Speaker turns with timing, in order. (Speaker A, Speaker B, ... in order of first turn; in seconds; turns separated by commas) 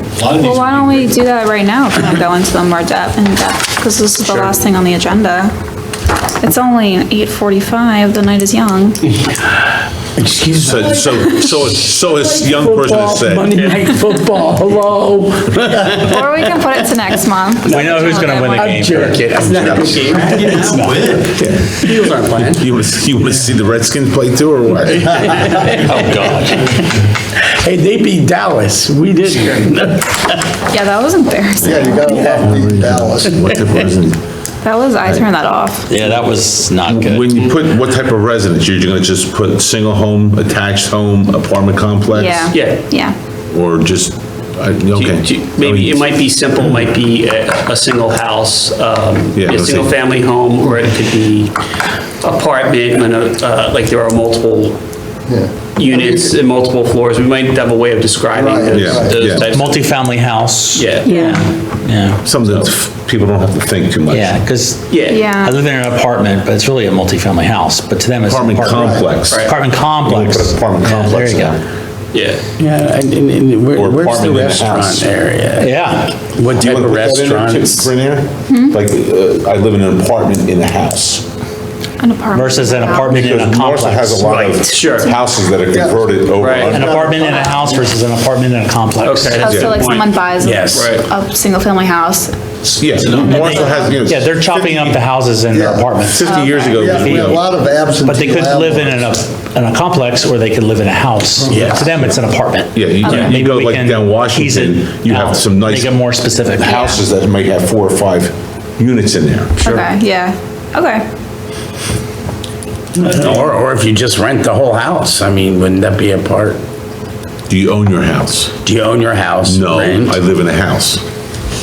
Speaker A: 0.1-1.2, Speaker B: 0.3-5.5, Speaker C: 4.2-4.5, Speaker B: 6.4-9.1, Speaker D: 10.2-21.0, Speaker E: 10.6-13.6, Speaker C: 13.5-13.8, Speaker B: 15.9-18.8, Speaker F: 17.7-19.2, Speaker C: 19.3-20.9, Speaker A: 20.1-21.3, Speaker E: 21.3-21.8, Speaker C: 21.8-22.7, Speaker E: 22.4-25.8, Speaker D: 24.8-30.6, Speaker B: 30.7-32.2, Speaker G: 31.6-33.4, Speaker D: 32.0-32.6, Speaker E: 32.4-34.2, Speaker D: 33.3-33.8, Speaker B: 34.6-35.9, Speaker F: 35.9-37.2, Speaker E: 36.9-42.5, Speaker B: 42.1-43.1, Speaker C: 42.5-42.8, Speaker E: 43.5-46.1, Speaker C: 44.9-51.6, Speaker E: 49.4-49.9, Speaker C: 52.2-54.8, Speaker G: 55.3-56.3, Speaker C: 55.8-60.0, Speaker G: 58.3-59.3, Speaker E: 58.7-59.5, Speaker F: 59.4-62.2, Speaker C: 60.7-61.3, Speaker B: 61.0-61.5, Speaker E: 62.2-64.4, Speaker F: 64.1-71.6, Speaker C: 64.9-65.2, Speaker B: 65.1-65.6, Speaker E: 68.2-71.6, Speaker G: 68.7-69.1, Speaker C: 69.3-69.5, Speaker C: 72.1-72.4, Speaker D: 72.6-77.9, Speaker E: 73.7-75.1, Speaker F: 75.5-76.1, Speaker E: 76.4-81.2, Speaker B: 78.5-78.7, Speaker B: 82.0-83.2, Speaker F: 82.3-84.3, Speaker E: 83.0-87.0, Speaker C: 84.6-85.1, Speaker B: 84.8-85.2, Speaker G: 85.7-87.9, Speaker C: 86.4-86.8, Speaker F: 86.7-89.7, Speaker B: 87.2-87.6, Speaker C: 89.0-90.1, Speaker B: 89.3-94.0, Speaker E: 89.5-89.8, Speaker D: 90.4-91.0, Speaker C: 90.7-91.1, Speaker E: 92.8-95.0, Speaker F: 93.3-96.3, Speaker G: 95.5-96.0, Speaker E: 96.1-97.4, Speaker B: 96.2-96.9, Speaker G: 96.7-99.1, Speaker F: 97.0-97.5, Speaker F: 98.0-107.0, Speaker G: 101.5-101.8, Speaker D: 101.5-101.8, Speaker E: 102.7-106.0, Speaker E: 106.6-109.5, Speaker B: 109.6-111.0, Speaker C: 109.6-109.9, Speaker D: 112.9-116.6, Speaker E: 117.5-118.5, Speaker D: 118.5-120.2, Speaker E: 119.4-121.0